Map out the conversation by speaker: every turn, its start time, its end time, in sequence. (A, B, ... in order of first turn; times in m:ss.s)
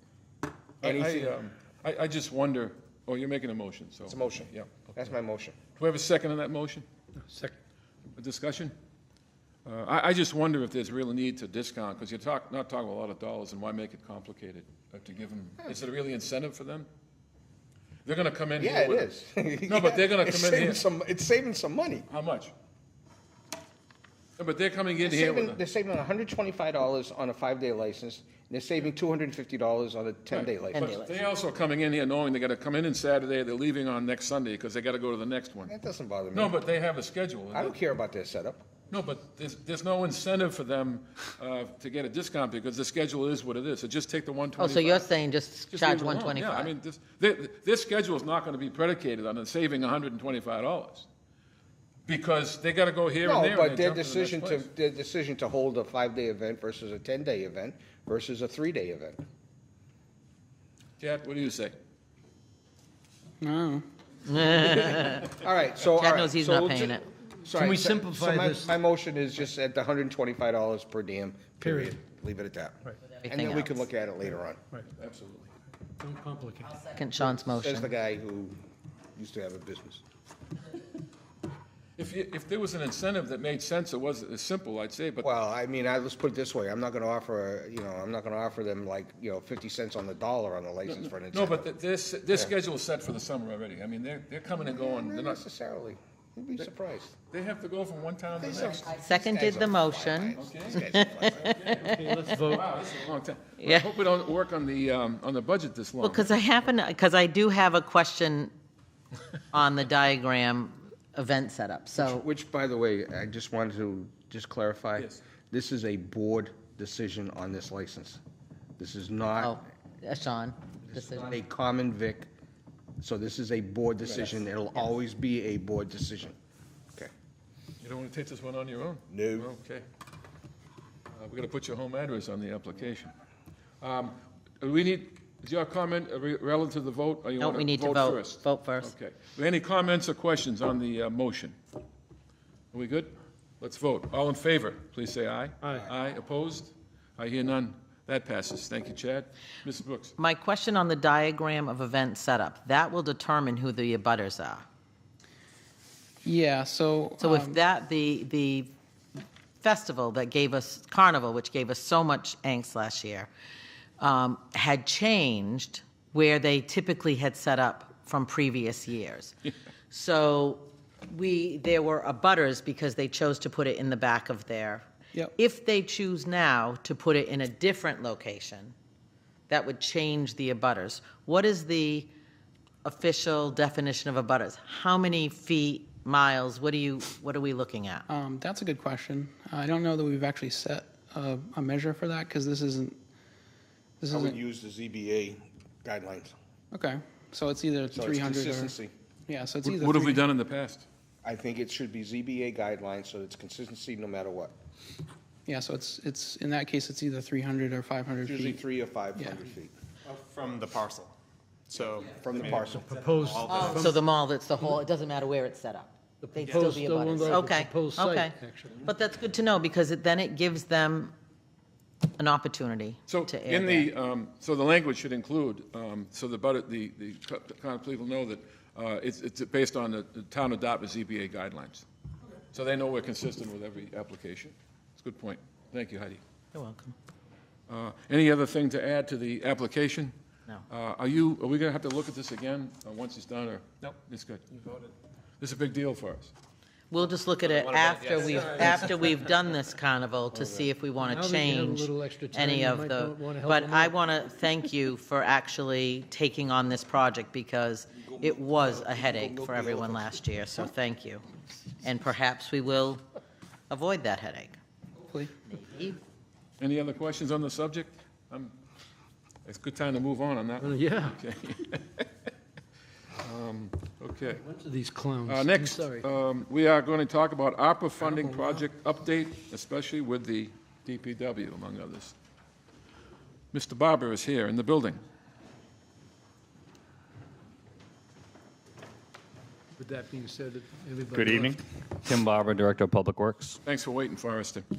0:00.8-0:01.3 A
0:00.8-0:05.0 B
0:04.1-0:05.6 A
0:05.8-0:06.8 B
0:07.2-0:07.5 C
0:08.2-0:08.7 B
0:09.6-0:16.9 B
0:18.0-0:19.1 B
0:18.6-0:22.1 A
0:19.7-0:20.8 B
0:22.1-0:22.5 B
0:24.4-0:25.6 B
0:25.0-0:30.9 A
0:30.3-0:35.7 B
0:30.7-0:31.2 D
0:35.7-0:36.6 A
0:36.3-0:37.8 B
0:37.5-0:38.7 A
0:38.9-0:45.1 B
0:44.6-0:46.7 D
0:45.7-0:51.1 B
0:52.0-0:54.7 B
0:53.2-0:59.2 A
1:01.0-1:01.8 B
1:03.4-1:03.8 E
1:04.2-1:05.4 D
1:05.3-1:14.6 A
1:06.0-1:07.0 D
1:07.4-1:08.7 C
1:11.6-1:12.0 C
1:13.1-1:13.8 D
1:15.0-1:15.5 B
1:16.0-1:16.8 C
1:16.6-1:17.9 D
1:17.2-1:18.6 A
1:19.2-1:20.0 A
1:22.0-1:25.3 B
1:25.2-1:31.7 A
1:30.9-1:35.4 B
1:34.5-1:37.1 A
1:37.3-1:38.9 B
1:38.4-1:41.6 A
1:38.8-1:42.4 D
1:40.4-1:40.8 B
1:41.4-1:41.9 B
1:41.9-1:42.7 C
1:42.5-1:46.3 B
1:43.6-1:43.9 D
1:46.0-1:48.5 D
1:49.5-1:52.2 D
1:52.0-1:58.2 A
1:58.8-1:59.6 A
1:59.4-2:01.3 D
2:00.8-2:02.3 A
2:03.0-2:06.4 A
2:04.0-2:04.3 B
2:07.8-2:09.8 B
2:09.1-2:09.5 A
2:11.1-2:13.1 B
2:13.8-2:21.6 B
2:17.4-2:19.0 D
2:22.7-2:30.1 B
2:25.6-2:25.9 C
2:30.2-2:34.6 D
2:36.2-2:37.6 E
2:37.2-2:38.7 D
2:39.6-2:43.3 D
2:44.0-2:49.4 D
2:49.9-2:54.8 D
2:55.4-2:58.8 D
2:59.5-3:02.1 D
3:02.8-3:08.0 D
3:08.1-3:13.0 E
3:14.0-3:14.4 E
3:14.1-3:16.3 A
3:16.7-3:18.8 E
3:17.9-3:18.9 A
3:19.3-3:20.2 E
3:19.6-3:20.8 B
3:21.2-3:24.5 A
3:25.5-3:28.6 E
3:28.2-3:29.7 A
3:30.1-3:31.1 F
3:31.7-3:33.9 F
3:31.7-3:32.9 A
3:32.3-3:34.0 C
3:33.5-3:41.1 D
3:36.2-3:38.9 C
3:36.5-3:37.4 F
3:42.2-3:43.9 D
3:43.1-3:51.8 B
3:52.5-3:56.2 B
3:56.5-3:57.0 D
3:57.7-4:00.2 B
4:00.7-4:04.4 B
4:05.4-4:06.3 B
4:06.9-4:21.2 D
4:07.5-4:08.9 F
4:11.0-4:14.0 C
4:18.2-4:20.1 A
4:21.8-4:23.0 D
4:23.7-4:24.6 D
4:25.5-4:26.0 D
4:26.6-4:28.6 B
4:29.4-4:32.0 B
4:30.6-4:31.2 C
4:33.2-4:34.4 B
4:34.4-4:36.0 C
4:35.2-4:42.1 B
4:43.5-4:45.0 B
4:49.8-4:51.6 C
4:51.1-4:53.6 G
4:51.2-4:51.4 F
4:53.6-4:54.6 B